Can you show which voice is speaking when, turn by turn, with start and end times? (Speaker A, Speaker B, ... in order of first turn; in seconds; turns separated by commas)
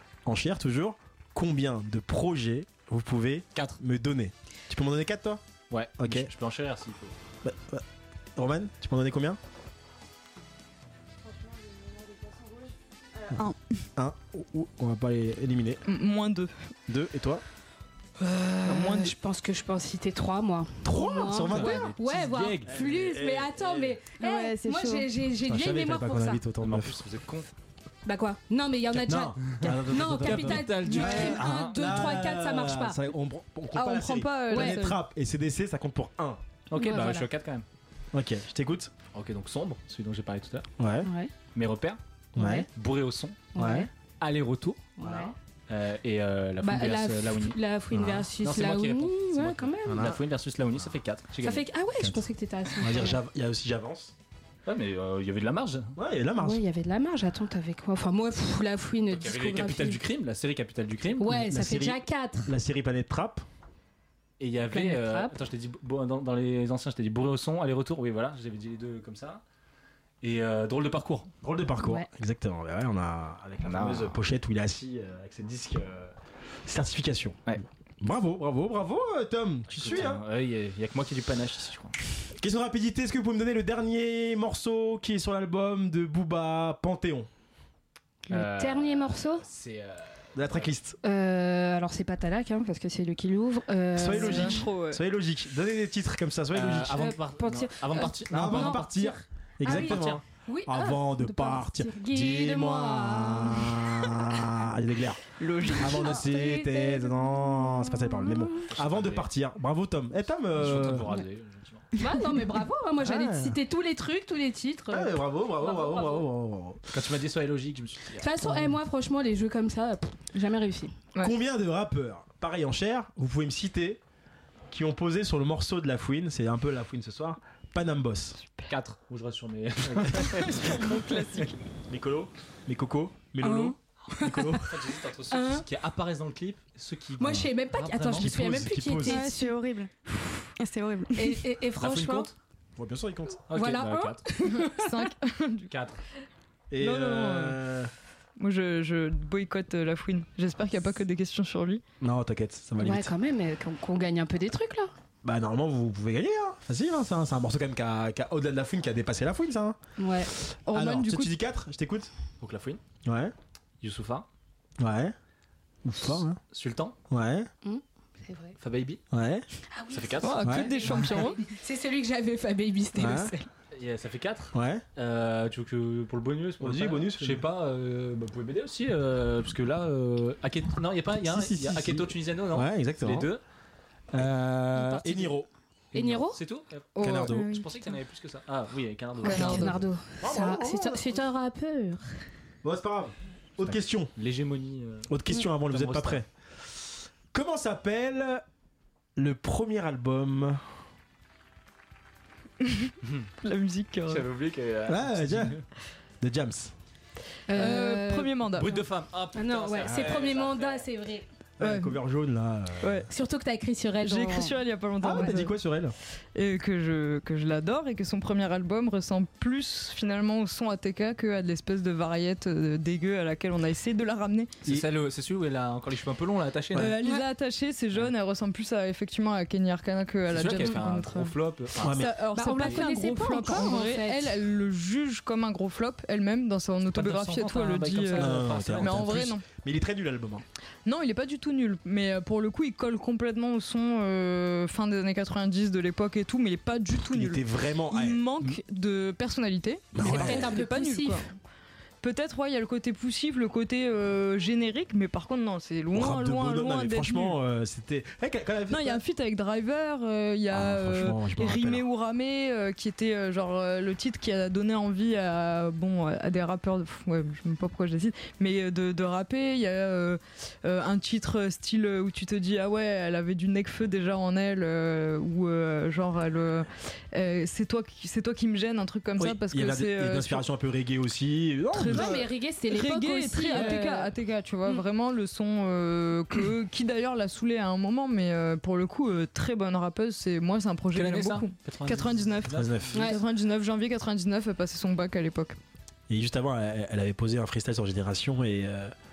Speaker A: 0.2-5.4, Speaker B: 5.7-7.1, Speaker A: 6.0-6.3, Speaker A: 7.4-7.8, Speaker A: 8.3-9.4, Speaker C: 13.3-13.6, Speaker A: 13.9-15.8, Speaker D: 15.8-16.5, Speaker A: 16.9-17.4, Speaker E: 18.2-26.4, Speaker D: 18.6-19.1, Speaker A: 20.8-21.9, Speaker B: 21.4-22.7, Speaker A: 22.6-24.0, Speaker C: 24.2-25.1, Speaker A: 25.4-27.0, Speaker B: 26.6-27.5, Speaker E: 28.0-33.0, Speaker A: 29.0-36.4, Speaker B: 29.6-31.7, Speaker D: 33.7-35.0, Speaker E: 34.5-34.8, Speaker B: 36.7-37.6, Speaker E: 36.8-37.3, Speaker A: 38.1-38.9, Speaker B: 39.1-40.7, Speaker A: 40.8-41.1, Speaker E: 41.0-41.3, Speaker B: 41.5-42.0, Speaker A: 42.3-42.7, Speaker E: 42.4-42.6, Speaker B: 42.7-43.5, Speaker E: 43.5-43.9, Speaker A: 43.5-43.9, Speaker B: 44.2-44.9, Speaker E: 45.0-45.3, Speaker A: 45.0-45.3, Speaker B: 45.7-47.6, Speaker E: 46.6-50.1, Speaker B: 48.4-51.6, Speaker A: 49.9-50.2, Speaker E: 51.4-53.2, Speaker A: 52.8-54.1, Speaker B: 54.6-56.0, Speaker A: 56.0-56.6, Speaker E: 56.4-60.0, Speaker B: 59.1-61.3, Speaker E: 61.2-62.5, Speaker A: 61.3-63.4, Speaker B: 64.4-69.4, Speaker E: 64.7-65.3, Speaker B: 70.2-71.3, Speaker A: 71.4-76.1, Speaker E: 71.8-72.0, Speaker B: 73.6-74.2, Speaker A: 76.7-80.2, Speaker B: 79.7-82.0, Speaker A: 82.4-87.3, Speaker E: 88.3-89.4, Speaker B: 88.3-90.7, Speaker A: 90.3-91.0, Speaker E: 91.0-94.6, Speaker A: 94.0-97.1, Speaker D: 94.1-95.0, Speaker B: 96.5-98.9, Speaker E: 96.9-104.4, Speaker A: 98.3-105.2, Speaker B: 99.7-100.2, Speaker D: 105.4-106.2, Speaker E: 105.7-108.6, Speaker A: 105.8-111.1, Speaker B: 108.7-109.3, Speaker B: 110.5-111.9, Speaker E: 112.0-116.3, Speaker A: 113.0-113.6, Speaker A: 114.9-116.8, Speaker B: 116.9-118.6, Speaker E: 118.2-120.9, Speaker A: 121.2-124.0, Speaker A: 124.7-128.4, Speaker B: 128.7-130.8, Speaker A: 130.1-130.5, Speaker D: 130.5-131.5, Speaker A: 131.9-134.8, Speaker E: 133.4-134.6, Speaker B: 134.6-138.3, Speaker E: 135.3-135.6, Speaker E: 137.2-139.5, Speaker A: 138.2-139.2, Speaker C: 139.1-141.4, Speaker E: 141.1-142.3, Speaker B: 141.8-142.3, Speaker A: 142.8-143.4, Speaker B: 143.5-144.2, Speaker E: 143.5-144.9, Speaker D: 144.5-145.7, Speaker B: 145.7-146.0, Speaker A: 146.7-147.9, Speaker D: 146.8-147.6, Speaker D: 148.4-151.8, Speaker A: 152.0-153.1, Speaker E: 152.8-154.9, Speaker A: 155.2-159.8, Speaker E: 160.0-160.3, Speaker A: 160.4-162.1, Speaker D: 160.7-161.3, Speaker B: 162.4-162.8, Speaker A: 163.0-163.3, Speaker B: 163.8-164.2, Speaker A: 164.8-165.1, Speaker A: 165.8-166.4, Speaker B: 166.5-166.9, Speaker A: 167.1-167.5, Speaker E: 167.6-168.6, Speaker B: 168.6-169.0, Speaker A: 169.1-169.4, Speaker E: 169.7-173.5, Speaker B: 169.9-170.7, Speaker D: 170.2-171.4, Speaker A: 172.9-173.3, Speaker B: 173.7-183.4, Speaker A: 174.5-174.8, Speaker A: 176.6-177.4, Speaker A: 181.2-183.3, Speaker A: 184.1-185.5, Speaker B: 184.2-185.3, Speaker B: 185.9-189.8, Speaker E: 185.9-186.4, Speaker D: 186.9-187.5, Speaker A: 187.0-187.6, Speaker E: 189.2-192.1, Speaker D: 189.2-189.8, Speaker A: 190.2-191.2, Speaker A: 192.6-194.1, Speaker B: 193.7-196.2, Speaker A: 195.1-196.2, Speaker A: 197.3-198.4, Speaker A: 199.2-200.6, Speaker D: 202.6-204.2, Speaker B: 204.1-205.6, Speaker A: 204.8-205.6, Speaker A: 206.2-206.7, Speaker E: 207.5-208.3, Speaker D: 207.5-208.8, Speaker B: 208.6-210.8, Speaker E: 209.3-211.2, Speaker A: 211.6-213.1, Speaker D: 211.6-212.0, Speaker E: 213.1-214.5, Speaker D: 214.0-215.6, Speaker A: 215.0-215.9, Speaker D: 216.3-224.6, Speaker B: 224.6-226.9, Speaker D: 226.7-239.4, Speaker B: 230.3-232.0, Speaker A: 231.8-232.1, Speaker E: 232.3-234.3, Speaker B: 236.9-239.3, Speaker A: 238.1-240.4, Speaker D: 240.8-251.3, Speaker A: 247.1-248.6, Speaker A: 249.9-250.5, Speaker E: 250.0-251.2, Speaker D: 252.0-257.4, Speaker A: 255.9-259.0, Speaker D: 258.7-280.4, Speaker A: 260.5-261.8, Speaker A: 279.2-282.2, Speaker D: 281.7-295.6, Speaker E: 281.8-284.1, Speaker B: 290.9-293.0, Speaker A: 292.5-293.1, Speaker E: 292.9-293.2, Speaker A: 296.1-298.9